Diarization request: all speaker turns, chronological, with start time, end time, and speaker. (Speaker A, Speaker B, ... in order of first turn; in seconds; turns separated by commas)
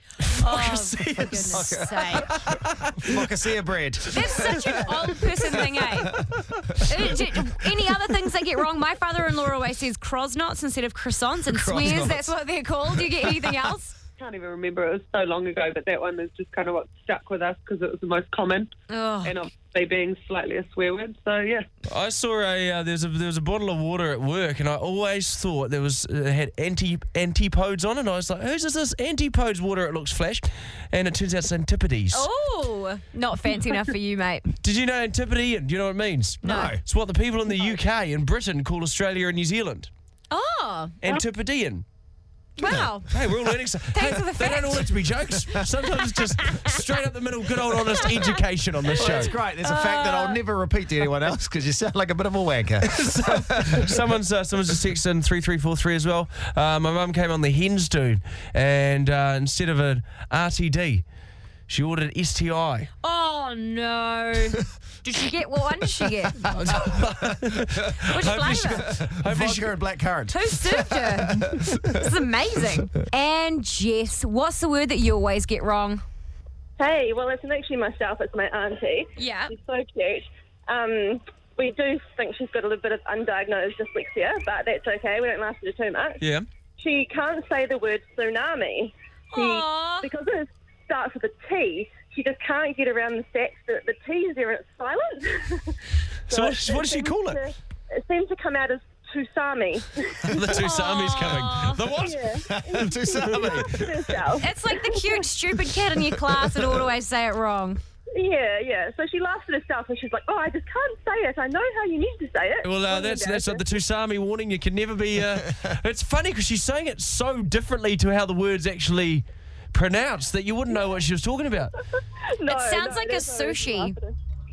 Speaker A: 0.3-3.2, Speaker B: 0.4-2.3, Speaker C: 1.3-6.8, Speaker B: 4.1-6.1, Speaker B: 6.9-13.9, Speaker C: 11.5-12.3, Speaker C: 13.0-13.7, Speaker D: 14.2-18.7, Speaker B: 18.9-19.4, Speaker D: 19.2-21.7, Speaker A: 21.9-32.3, Speaker B: 32.1-34.5, Speaker A: 34.6-39.9, Speaker C: 36.4-36.8, Speaker B: 36.4-36.8, Speaker B: 40.3-41.2, Speaker A: 41.0-41.9, Speaker B: 42.6-43.1, Speaker C: 42.6-42.9, Speaker A: 43.0-49.3, Speaker B: 43.9-44.9, Speaker B: 46.4-46.8, Speaker B: 48.0-48.3, Speaker C: 49.0-54.0, Speaker B: 49.0-50.4, Speaker A: 52.9-61.0, Speaker A: 61.7-62.9, Speaker B: 63.0-66.5, Speaker A: 66.5-69.7, Speaker B: 68.1-68.9, Speaker C: 69.1-72.1, Speaker B: 70.3-76.0, Speaker E: 76.8-86.2, Speaker B: 79.2-79.5, Speaker A: 86.2-86.5, Speaker E: 86.8-95.7, Speaker B: 89.3-90.1, Speaker E: 96.3-100.3, Speaker A: 96.3-97.4, Speaker A: 100.3-102.3, Speaker B: 100.5-101.8, Speaker E: 101.9-105.3, Speaker C: 102.4-104.2, Speaker A: 103.3-103.7, Speaker B: 104.4-107.8, Speaker C: 106.0-106.8, Speaker E: 108.1-113.6, Speaker A: 112.6-121.7, Speaker E: 122.4-124.1, Speaker B: 122.5-124.0